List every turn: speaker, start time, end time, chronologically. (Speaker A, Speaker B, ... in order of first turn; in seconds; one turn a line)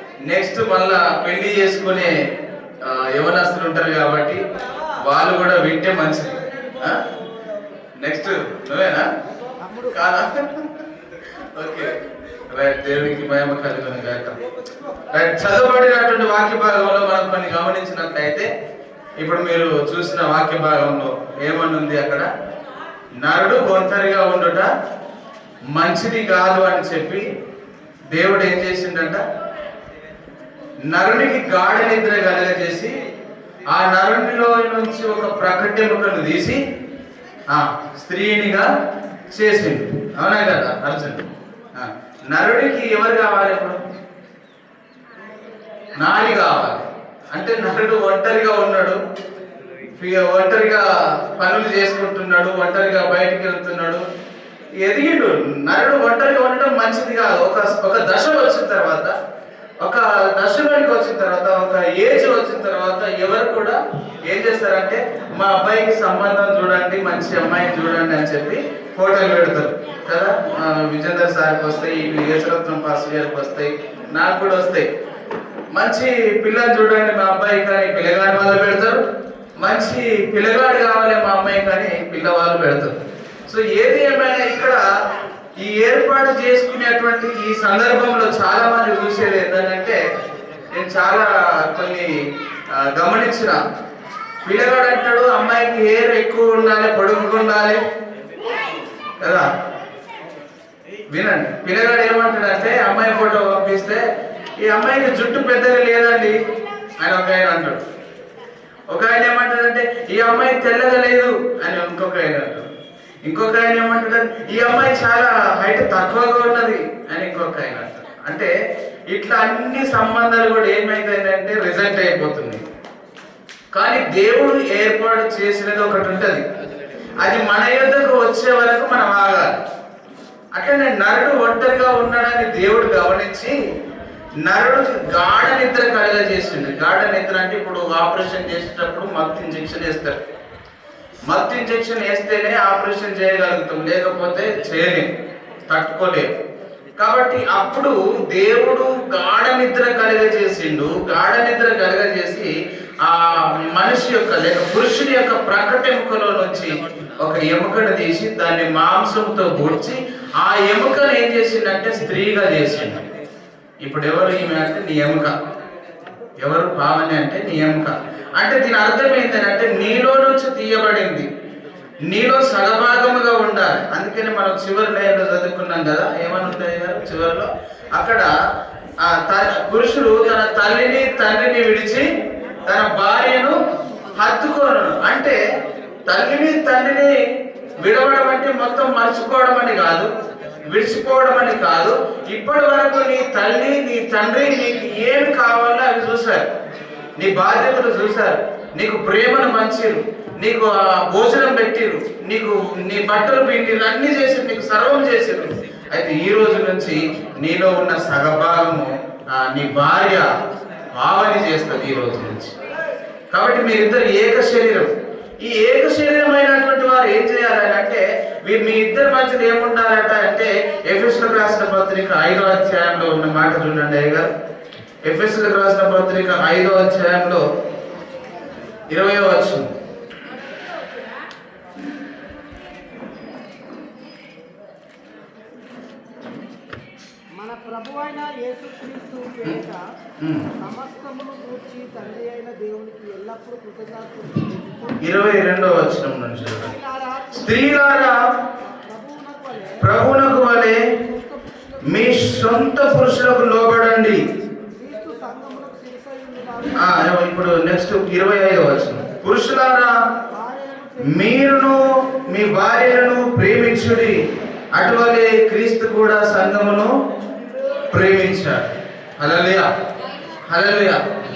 Speaker A: 0.2-2.1
Speaker A: 2.8-4.4
Speaker A: 5.0-7.0
Speaker A: 8.0-9.1
Speaker A: 9.8-11.9
Speaker A: 12.5-14.3
Speaker A: 15.1-18.5
Speaker A: 19.2-22.3
Speaker A: 23.2-24.7
Speaker A: 25.7-27.2
Speaker A: 28.1-29.2
Speaker A: 30.9-32.9
Speaker A: 33.7-36.6
Speaker A: 37.5-38.7
Speaker A: 39.3-43.8
Speaker A: 46.0-49.0
Speaker A: 49.9-54.0
Speaker A: 54.8-59.1
Speaker A: 59.8-74.9
Speaker A: 75.7-79.0
Speaker A: 79.6-82.9
Speaker A: 83.5-84.8
Speaker A: 85.6-90.0
Speaker A: 90.7-92.1
Speaker A: 92.7-93.6
Speaker A: 94.4-97.8
Speaker A: 99.2-99.5
Speaker A: 101.1-104.0
Speaker A: 104.6-106.4
Speaker A: 107.0-107.8
Speaker A: 108.9-112.7
Speaker A: 113.2-118.5
Speaker A: 119.1-122.6
Speaker A: 123.7-126.4
Speaker A: 127.2-129.6
Speaker A: 130.5-133.5
Speaker A: 134.4-140.2
Speaker A: 141.3-145.1
Speaker A: 145.6-146.3
Speaker A: 147.0-152.5
Speaker A: 153.0-163.1
Speaker A: 163.8-165.3
Speaker A: 166.4-171.3
Speaker A: 172.1-178.3
Speaker A: 179.0-182.1
Speaker A: 182.7-183.6
Speaker A: 184.2-185.4
Speaker A: 186.1-187.2
Speaker A: 187.8-190.1
Speaker A: 190.7-196.4
Speaker A: 197.2-210.3
Speaker A: 210.9-212.5
Speaker A: 213.3-214.9
Speaker A: 215.4-224.3
Speaker A: 225.1-227.4
Speaker A: 228.9-229.7
Speaker B: 237.3-239.8
Speaker A: 240.2-240.5
Speaker B: 240.6-244.5
Speaker A: 245.0-248.2
Speaker B: 248.9-249.8
Speaker A: 249.8-250.8
Speaker A: 251.8-254.2
Speaker B: 254.7-256.7
Speaker A: 256.7-259.9
Speaker B: 260.6-260.9
Speaker A: 261.0-264.2
Speaker A: 264.7-266.9
Speaker A: 267.9-269.7
Speaker A: 270.5-271.0